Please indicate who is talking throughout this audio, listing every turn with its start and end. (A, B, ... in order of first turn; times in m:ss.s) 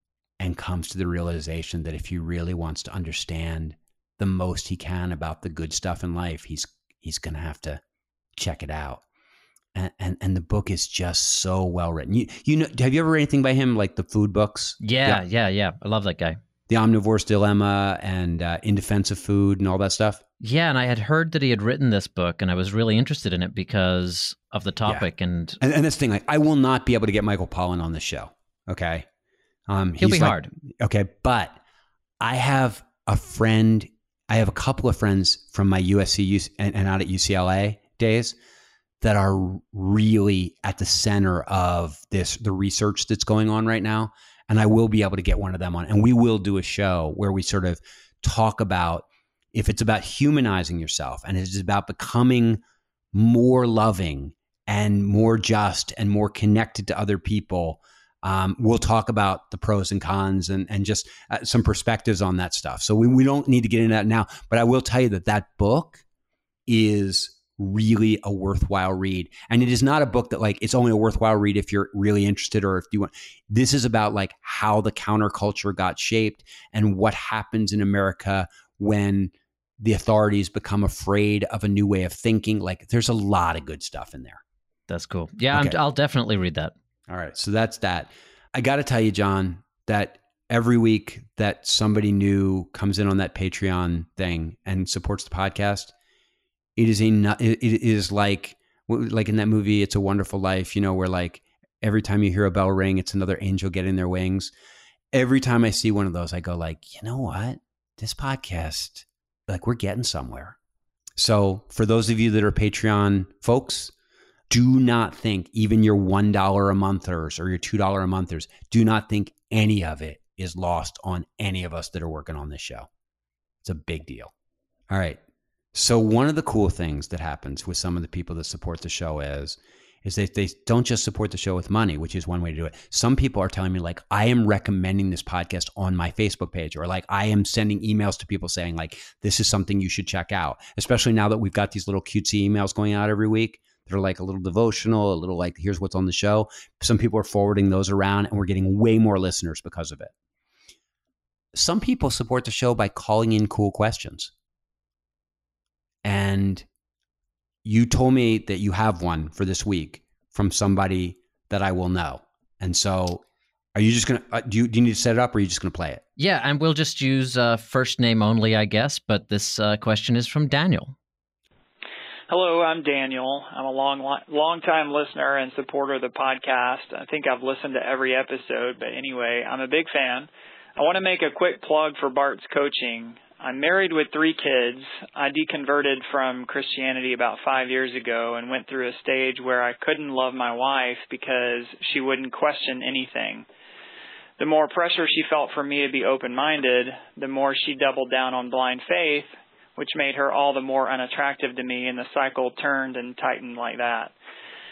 0:00.4-0:07.8 A
0:08.4-0:09.0 A
0:09.7-0:15.2 A
0:14.8-0:16.4 B
0:16.7-0:20.2 A
0:20.4-0:25.6 B
0:25.6-0:29.1 A
0:29.7-0:31.6 A
0:30.0-0:30.5 B
0:32.2-0:38.4 A
0:39.0-0:52.6 A
0:53.1-1:06.0 A
1:06.7-1:24.4 A
1:24.9-1:26.7 B
1:27.1-1:35.9 A
1:36.8-1:44.5 A
1:45.1-1:50.6 A
1:51.2-1:53.9 A
1:54.5-2:02.9 A
2:03.6-2:04.3 A
2:04.9-2:05.2 A
2:05.7-2:30.1 A
2:31.5-2:34.3 A
2:36.0-2:36.7 A
2:37.6-2:43.2 A
2:43.8-2:46.0 A
2:46.2-2:51.0 B
2:52.3-3:13.5 C
3:14.4-3:24.1 C